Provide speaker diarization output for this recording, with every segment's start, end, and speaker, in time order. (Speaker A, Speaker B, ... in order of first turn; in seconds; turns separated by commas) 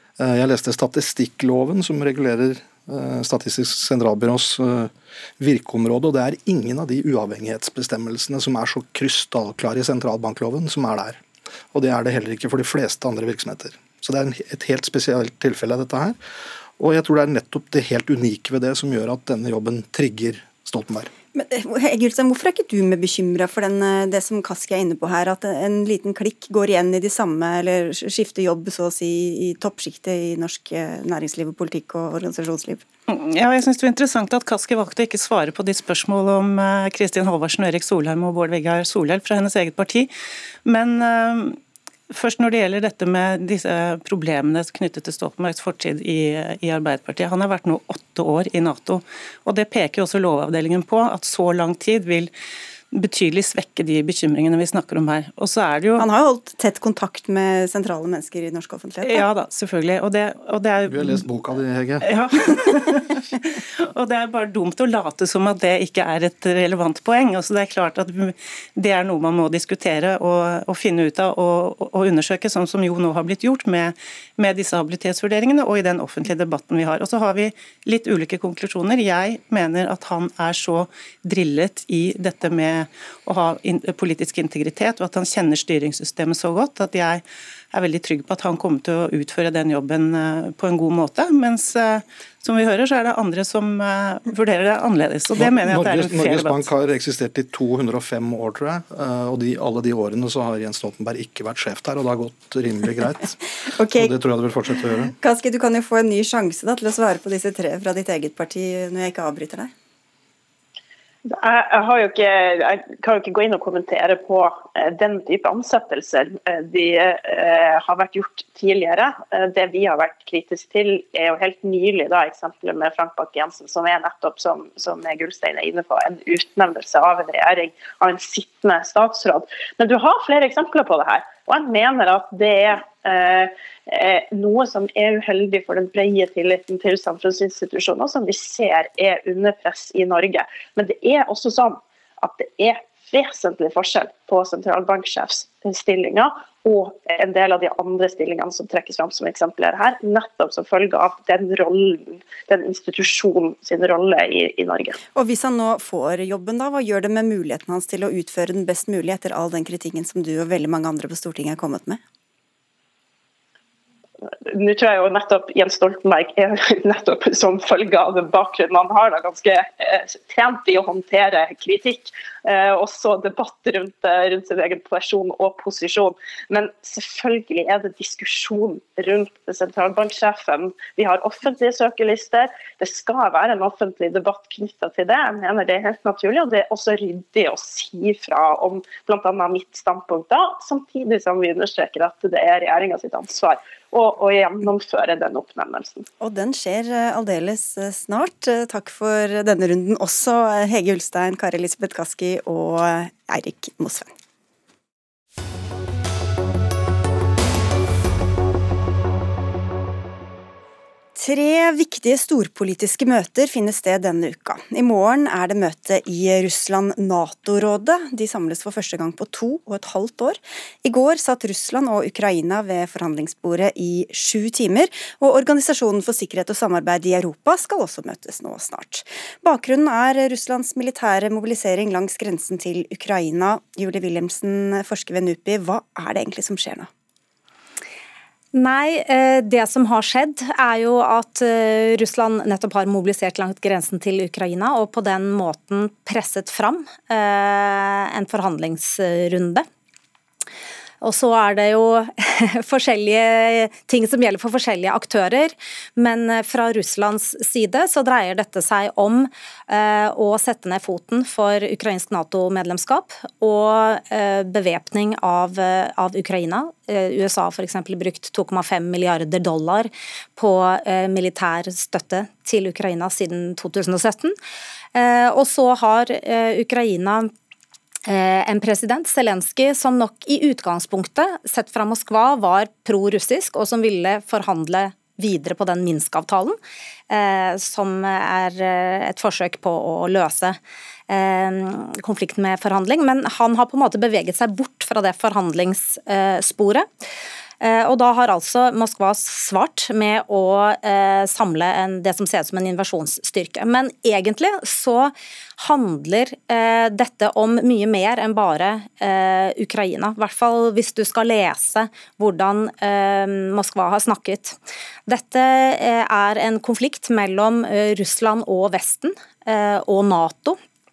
Speaker A: 0.2-11.2, Speaker A: 11.7-16.2, Speaker A: 16.8-21.1, Speaker B: 21.3-32.8, Speaker C: 33.1-40.1, Speaker C: 40.6-41.6, Speaker C: 42.1-52.3, Speaker C: 52.9-56.1, Speaker B: 56.0-59.2, Speaker C: 59.0-61.2, Speaker A: 60.9-62.1, Speaker C: 62.0-63.2, Speaker C: 63.8-96.7, Speaker A: 95.3-105.1, Speaker B: 103.8-104.1, Speaker B: 105.2-109.7, Speaker D: 111.2-155.0, Speaker B: 155.1-162.0, Speaker D: 164.4-196.1, Speaker B: 196.2-204.1, Speaker B: 211.2-236.9, Speaker E: 238.5-249.7, Speaker E: 251.0-274.4, Speaker E: 274.9-277.3, Speaker E: 278.1-286.6, Speaker E: 287.1-290.6, Speaker E: 291.1-296.9, Speaker E: 297.6-320.6